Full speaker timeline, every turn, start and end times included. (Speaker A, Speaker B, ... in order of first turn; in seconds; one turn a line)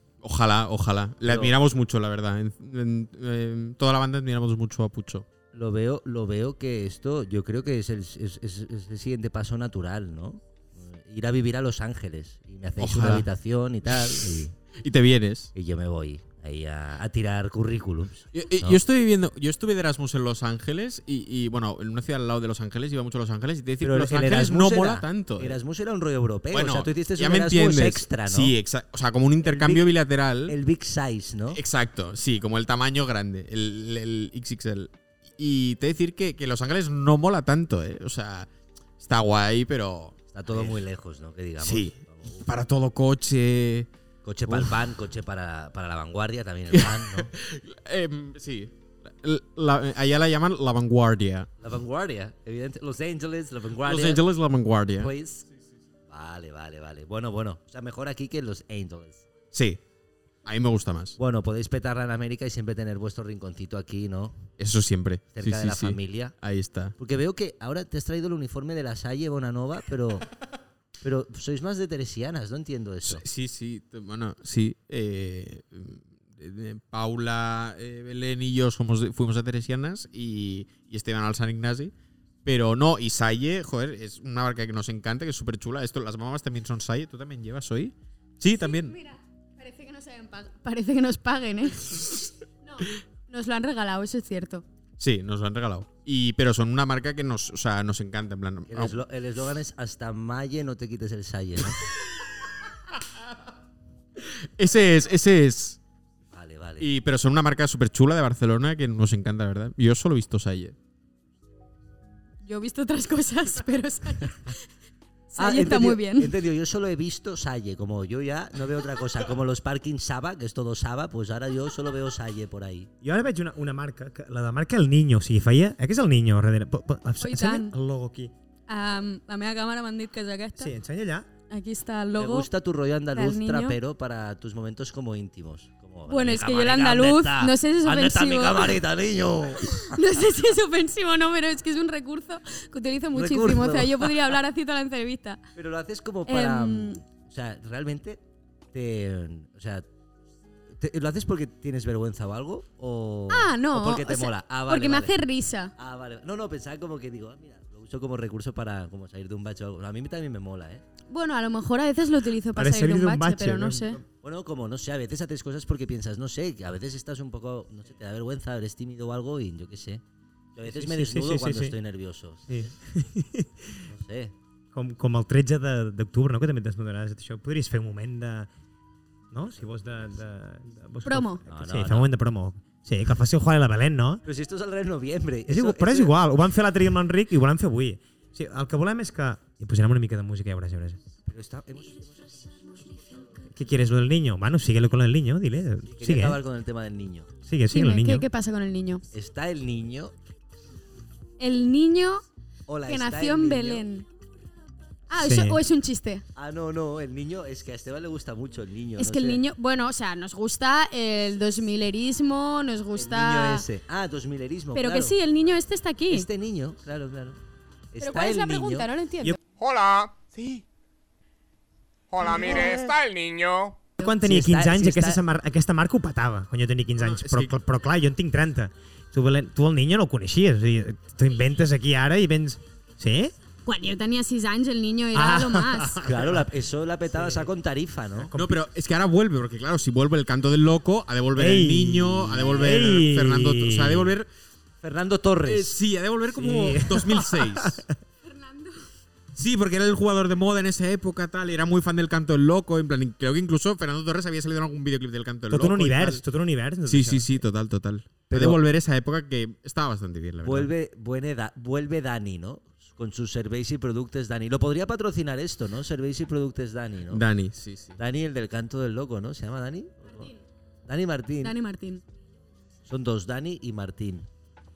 Speaker A: 0.2-5.3
Speaker B: 1.3-1.6
Speaker B: 5.5-14.5
Speaker A: 12.8-13.3
Speaker A: 13.9-15.5
Speaker B: 15.5-18.8
Speaker A: 18.3-25.6
Speaker B: 23.8-28.5
Speaker A: 26.5-30.6
Speaker B: 29.4-29.9
Speaker B: 30.5-31.6
Speaker A: 31.5-38.5
Speaker A: 39.0-40.8
Speaker B: 40.3-42.5
Speaker A: 41.6-43.9
Speaker B: 44.2-47.3
Speaker A: 44.5-44.8
Speaker A: 46.7-51.5
Speaker B: 51.6-54.2
Speaker A: 53.8-55.1
Speaker B: 55.0-55.5
Speaker B: 56.1-59.2
Speaker A: 59.5-59.8
Speaker A: 60.5-61.2
Speaker B: 61.2-64.5
Speaker A: 64.6-67.0
Speaker B: 65.3-66.3
Speaker B: 67.0-70.3
Speaker B: 71.0-73.2
Speaker A: 73.0-81.9
Speaker A: 82.5-88.9
Speaker C: 88.5-94.6
Speaker A: 95.0-99.0
Speaker B: 98.7-101.8
Speaker A: 104.2-105.8
Speaker B: 106.3-106.9
Speaker A: 106.8-110.8
Speaker C: 112.4-114.6
Speaker C: 115.3-116.3
Speaker B: 115.4-122.9
Speaker D: 123.0-128.3
Speaker C: 127.2-127.8
Speaker C: 128.7-130.8
Speaker D: 130.6-131.3
Speaker C: 131.5-132.5
Speaker B: 132.2-140.0
Speaker C: 133.1-133.8
Speaker C: 136.1-138.8
Speaker C: 139.8-145.4
Speaker B: 143.1-144.3
Speaker B: 145.6-148.2
Speaker C: 146.3-147.0
Speaker B: 148.7-149.9
Speaker B: 150.8-155.2
Speaker C: 153.3-155.7
Speaker B: 155.8-160.8
Speaker C: 161.1-164.0
Speaker D: 162.6-164.1
Speaker B: 164.2-170.0
Speaker B: 170.6-172.7
Speaker D: 170.6-171.8
Speaker D: 172.5-173.8
Speaker B: 173.8-174.3
Speaker D: 174.7-178.5
Speaker D: 179.3-184.2
Speaker C: 181.1-181.4
Speaker B: 181.5-182.1
Speaker B: 184.2-186.1
Speaker D: 185.5-191.0
Speaker B: 191.3-192.9
Speaker D: 193.5-196.4
Speaker B: 195.9-197.3
Speaker D: 197.4-198.3
Speaker C: 197.7-199.1
Speaker B: 199.1-200.1
Speaker C: 201.4-202.2
Speaker B: 202.7-203.8
Speaker C: 202.8-204.1
Speaker C: 205.1-206.2
Speaker D: 205.2-205.6
Speaker B: 206.3-209.4
Speaker C: 209.0-213.7
Speaker B: 213.0-215.2
Speaker C: 214.7-216.3
Speaker B: 216.1-217.4
Speaker B: 217.9-218.9
Speaker C: 218.0-219.4
Speaker E: 219.6-220.6
Speaker E: 222.1-223.8
Speaker B: 222.2-222.9
Speaker D: 224.0-233.3
Speaker B: 224.0-225.2
Speaker A: 227.0-227.5
Speaker C: 233.7-236.0
Speaker D: 235.1-236.5
Speaker B: 236.0-238.3
Speaker D: 237.1-237.5
Speaker D: 238.2-238.6
Speaker A: 238.3-244.3
Speaker D: 241.4-244.2
Speaker B: 244.8-245.8
Speaker A: 245.4-247.8
Speaker D: 246.3-247.9
Speaker C: 248.2-248.8
Speaker A: 249.3-256.2
Speaker D: 255.5-257.4
Speaker A: 256.9-260.7
Speaker B: 258.3-258.6
Speaker B: 260.4-267.2
Speaker A: 267.1-268.0
Speaker B: 268.0-270.3
Speaker B: 270.9-271.6
Speaker C: 271.4-272.0
Speaker B: 272.9-274.3